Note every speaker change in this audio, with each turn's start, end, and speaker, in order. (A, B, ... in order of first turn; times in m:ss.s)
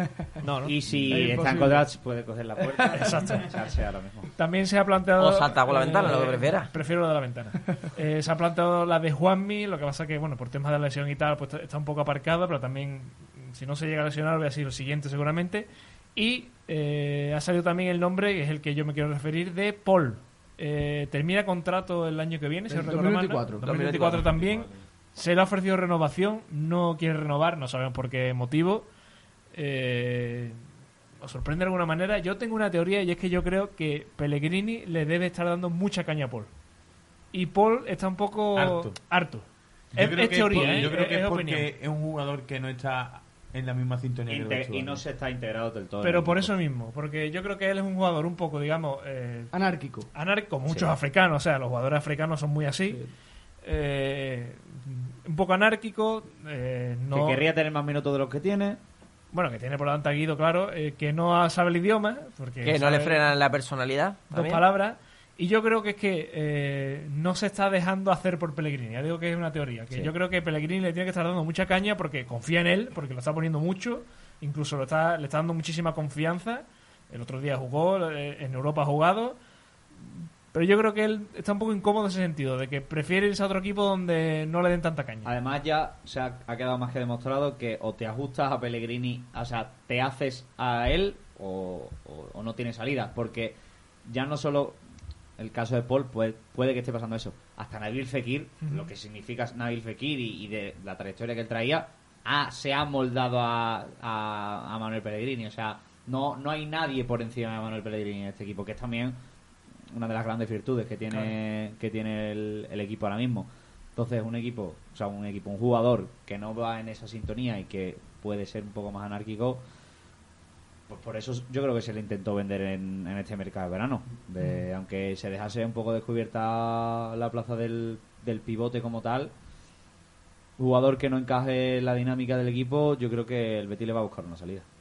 0:00.4-0:01.1 A
0:00.6-0:04.3 B
0:01.1-0:01.8 C
0:02.6-0:02.8 C
0:02.9-0:03.5 A
0:04.3-0:28.9 A
0:05.2-0:06.7 D
0:22.7-0:23.9 C
0:23.6-0:24.8 E
0:29.5-0:30.6 A
0:31.2-0:36.5 A
0:37.3-0:41.7 A
0:38.5-0:39.0 E
0:39.9-0:45.0 E
0:44.3-0:46.5 B
0:46.0-0:49.5 A
0:49.5-0:50.1 C
0:50.1-0:53.0 A
0:50.7-0:50.9 B
0:53.6-0:57.4 A
0:57.1-0:58.8 B
0:59.3-1:03.2 A
1:02.6-1:04.6 D
1:04.3-1:19.4 A
1:20.0-1:25.3 A
1:25.2-1:34.8 B
1:35.4-1:49.2 B
1:38.6-1:38.9 A
1:49.9-1:59.6 B
1:51.1-1:51.3 A
2:00.9-2:09.3 B
2:10.6-2:14.6 B